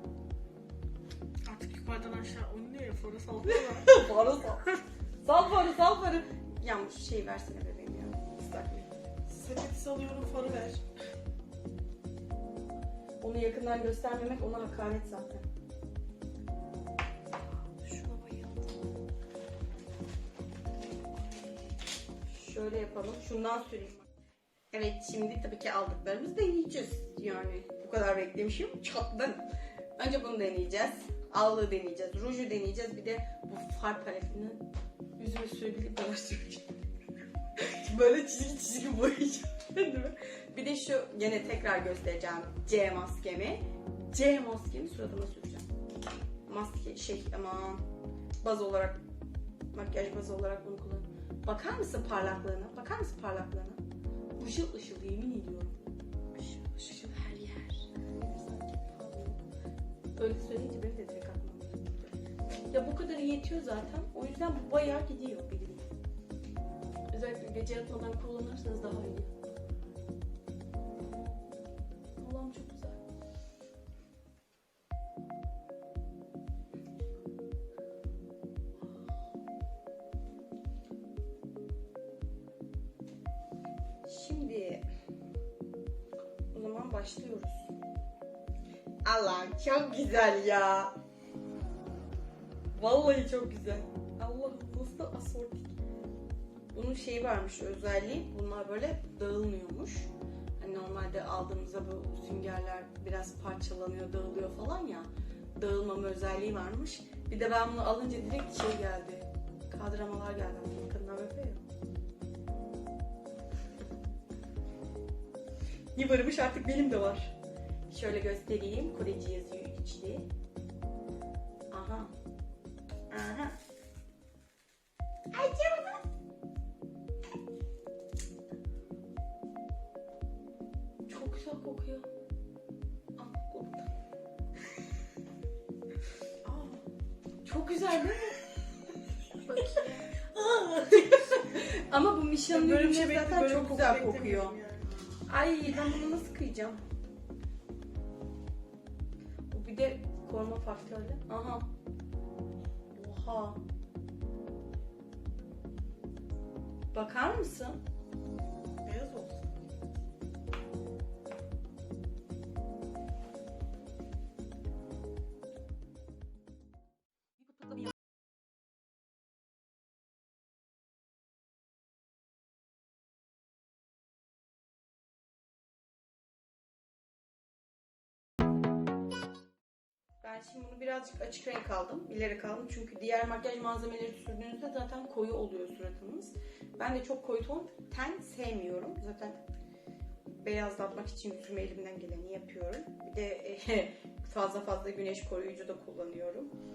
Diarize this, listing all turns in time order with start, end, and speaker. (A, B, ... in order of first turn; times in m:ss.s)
0:01.5-0:04.1 A
0:03.4-0:08.9 B
0:09.3-0:10.8 A
0:13.2-0:15.4 B
0:17.8-0:18.8 C
0:22.3-0:24.1 B
0:24.7-0:34.6 B
0:35.2-0:36.7 B
0:37.6-0:45.7 B
0:46.4-0:47.8 B
0:48.4-0:49.0 B
0:49.7-0:53.8 B
0:54.4-0:55.8 B
0:56.4-0:57.2 A
0:57.2-0:59.4 B
0:57.2-0:57.5 C
1:00.2-1:02.1 B
1:02.7-1:05.9 B
1:07.1-1:09.3 B
1:11.0-1:11.6 B
1:12.2-1:13.0 B
1:18.8-1:19.1 B
1:24.0-1:24.8 B
1:26.5-1:27.7 B
1:29.0-1:30.9 B
1:32.7-1:35.8 B
1:36.7-1:51.6 B
1:55.9-1:57.3 B
1:57.9-2:00.2 B
2:01.7-2:02.1 B
2:03.1-2:03.6 B
2:05.3-2:06.0 B
2:11.1-2:12.0 B
2:13.2-2:13.9 B
2:16.4-2:16.8 A
2:17.4-2:18.4 B
2:19.5-2:20.1 C
2:19.6-2:21.2 A
2:20.9-2:24.5 B
2:22.5-2:25.0 A
2:25.3-2:26.8 B
2:29.5-2:31.7 B
2:32.9-2:33.6 B
2:36.9-2:37.8 B
2:38.8-2:39.9 A
3:00.2-3:09.4 B
3:10.4-3:16.5 B